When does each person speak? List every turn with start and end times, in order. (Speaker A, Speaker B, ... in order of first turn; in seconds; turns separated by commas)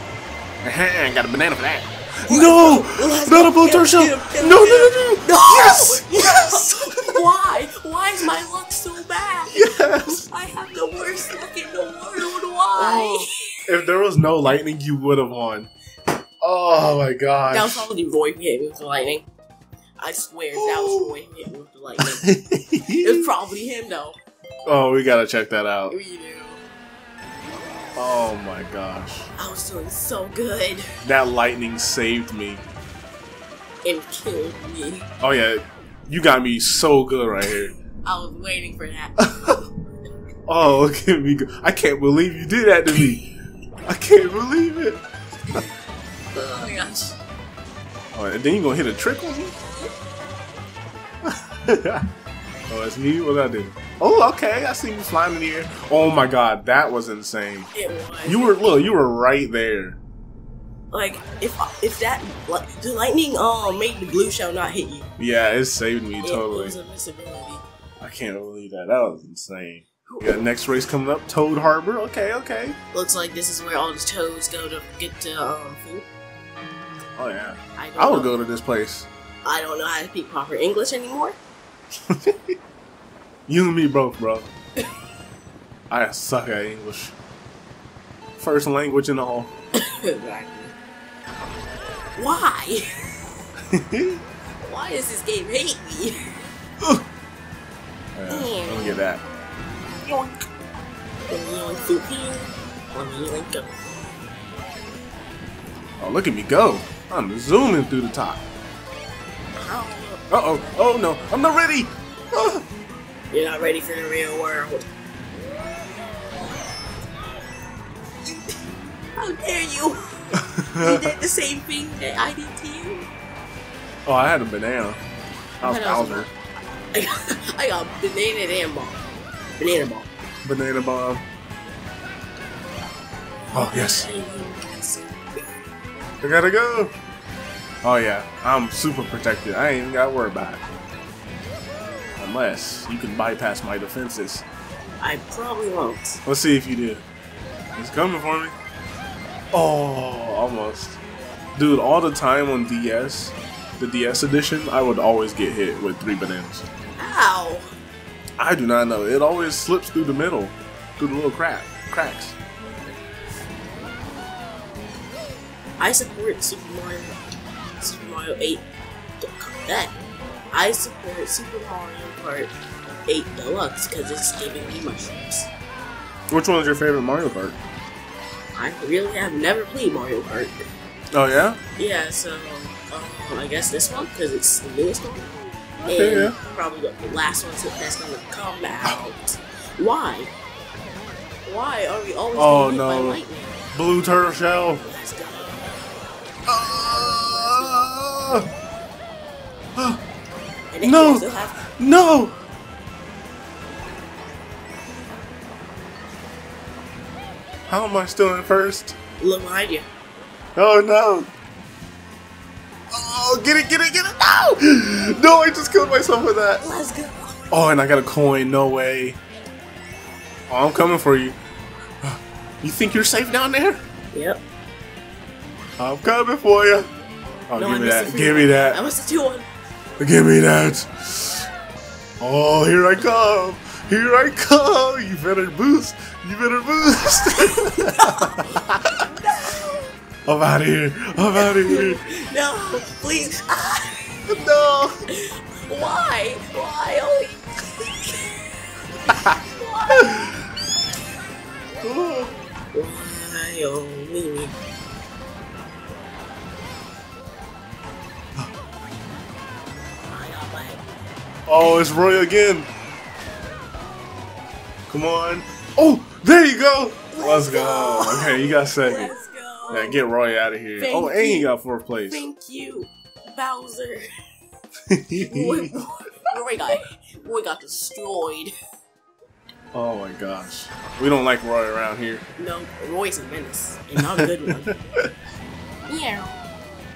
Speaker A: 0.6-7.2, Speaker B: 2.3-13.4, Speaker A: 9.5-10.2, Speaker A: 12.8-15.7, Speaker A: 16.4-17.9, Speaker B: 17.5-19.2, Speaker B: 20.0-22.3, Speaker A: 20.5-21.1, Speaker A: 22.0-23.2, Speaker B: 23.0-24.2, Speaker A: 24.6-25.9, Speaker B: 25.9-26.6, Speaker A: 27.9-29.3, Speaker B: 29.4-30.9, Speaker A: 31.0-32.6, Speaker B: 33.8-35.1, Speaker A: 35.2-37.7, Speaker B: 38.0-39.5, Speaker A: 39.2-39.6, Speaker A: 40.5-43.3, Speaker A: 43.8-45.0, Speaker B: 46.3-47.2, Speaker A: 48.1-49.5, Speaker A: 51.3-52.1, Speaker A: 52.7-57.7, Speaker B: 57.7-58.5, Speaker A: 58.2-60.0, Speaker B: 60.9-65.1, Speaker A: 65.2-66.8, Speaker B: 66.2-67.6, Speaker A: 68.0-72.8, Speaker B: 72.9-76.0, Speaker A: 77.2-79.1, Speaker B: 77.8-78.3, Speaker B: 79.4-81.4, Speaker A: 82.1-82.3, Speaker A: 83.5-84.5, Speaker A: 85.9-87.1, Speaker A: 88.4-89.5, Speaker B: 89.8-90.7, Speaker B: 92.2-92.8, Speaker A: 93.7-94.2, Speaker B: 94.6-96.4, Speaker A: 98.1-99.2, Speaker B: 98.3-99.0, Speaker A: 100.0-100.4, Speaker B: 101.3-103.7, Speaker A: 106.0-108.4, Speaker B: 109.6-110.2, Speaker A: 110.3-112.6, Speaker B: 113.3-114.9, Speaker B: 118.2-118.6, Speaker B: 119.2-123.1, Speaker A: 120.5-120.9, Speaker A: 124.0-125.0, Speaker A: 125.6-126.3, Speaker B: 125.6-126.3, Speaker B: 126.9-129.0, Speaker B: 129.6-130.1, Speaker A: 130.4-131.2, Speaker B: 133.5-135.1, Speaker A: 133.5-134.1, Speaker A: 136.2-136.9, Speaker A: 137.8-140.6, Speaker A: 142.2-144.4, Speaker B: 145.0-146.2, Speaker A: 146.2-147.0, Speaker A: 147.8-148.5, Speaker A: 149.5-151.0, Speaker A: 151.6-156.6, Speaker B: 157.0-157.7, Speaker A: 158.4-162.3, Speaker B: 165.8-167.2, Speaker B: 167.8-168.6, Speaker B: 169.2-169.9, Speaker B: 170.5-172.5, Speaker B: 173.1-175.5, Speaker A: 176.3-177.6, Speaker B: 178.6-180.7, Speaker A: 181.1-181.6, Speaker B: 181.8-190.3, Speaker A: 185.8-186.3, Speaker A: 188.8-189.1, Speaker B: 191.4-193.6, Speaker A: 192.3-193.2, Speaker A: 193.7-194.8, Speaker B: 194.8-195.6, Speaker A: 196.5-198.4, Speaker B: 196.6-197.9, Speaker B: 200.7-201.6, Speaker A: 200.8-202.4, Speaker A: 207.7-208.9, Speaker B: 209.2-209.8, Speaker A: 210.6-211.3, Speaker A: 212.9-216.6, Speaker B: 216.6-217.6, Speaker A: 217.5-219.2, Speaker A: 220.5-221.4, Speaker A: 222.0-223.8, Speaker B: 224.1-224.4, Speaker A: 225.8-226.9, Speaker A: 227.5-228.8, Speaker B: 227.6-229.4, Speaker A: 230.0-231.5, Speaker A: 232.2-238.9, Speaker B: 237.6-238.5, Speaker B: 239.0-239.9, Speaker A: 240.2-242.0, Speaker B: 241.4-244.6, Speaker A: 244.3-244.9, Speaker B: 245.1-250.1, Speaker A: 249.9-250.3, Speaker A: 251.8-252.3, Speaker B: 252.7-254.6, Speaker B: 260.1-260.8, Speaker A: 261.5-262.7, Speaker A: 264.9-269.1, Speaker B: 267.1-270.0, Speaker A: 269.7-272.2, Speaker B: 270.8-271.5, Speaker B: 272.1-274.1, Speaker A: 274.9-275.7, Speaker B: 275.2-278.5, Speaker A: 279.7-282.2, Speaker B: 282.4-284.8, Speaker A: 284.0-285.1, Speaker B: 285.9-286.5